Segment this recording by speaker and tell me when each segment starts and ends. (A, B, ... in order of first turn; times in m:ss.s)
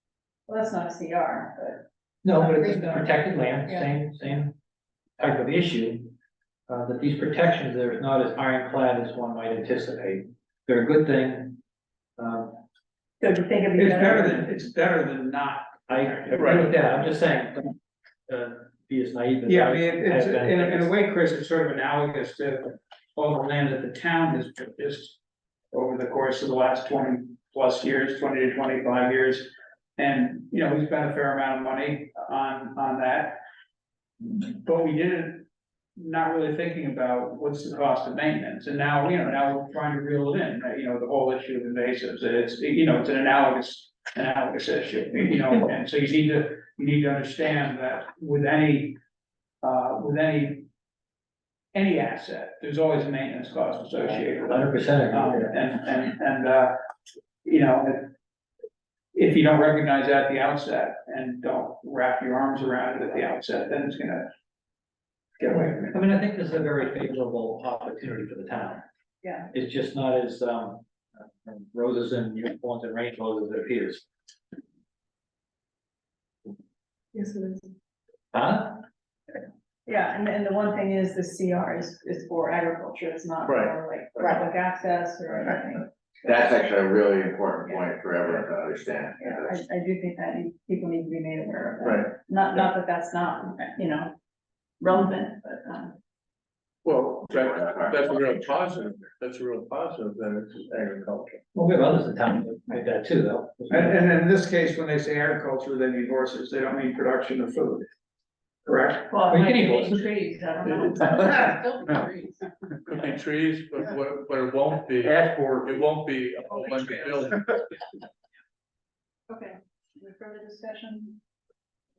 0:00.5-0:03.1 A
0:02.2-0:04.6 B
0:03.6-0:03.9 A
0:05.2-0:06.1 B
0:06.7-0:11.6 B
0:12.2-0:12.6 B
0:13.2-0:14.6 A
0:13.8-0:16.4 C
0:15.9-0:17.7 B
0:16.4-0:16.7 D
0:18.3-0:20.9 B
0:19.4-0:25.2 C
0:25.7-0:33.4 C
0:34.2-0:35.4 C
0:36.0-0:49.0 C
0:49.6-0:50.6 C
0:51.7-0:56.7 C
0:54.0-0:55.5 B
0:57.4-0:58.1 C
0:59.1-1:04.3 C
1:05.4-1:06.0 C
1:05.9-1:08.8 B
1:09.2-1:09.5 A
1:09.5-1:10.8 B
1:11.4-1:14.1 B
1:17.1-1:17.6 A
1:18.3-1:18.8 B
1:19.8-1:26.7 A
1:23.5-1:24.4 D
1:26.2-1:29.6 E
1:29.2-1:34.2 A
1:31.8-1:32.1 D
1:34.8-1:36.0 A
1:36.8-1:41.4 D
1:37.3-1:38.0 E
1:41.5-1:43.9 B
1:43.7-1:47.9 C
1:48.7-1:49.1 C
1:49.1-1:51.6 A
1:49.3-1:50.0 B
1:51.0-1:51.4 D
1:52.8-1:57.6 D
1:59.3-2:01.2 A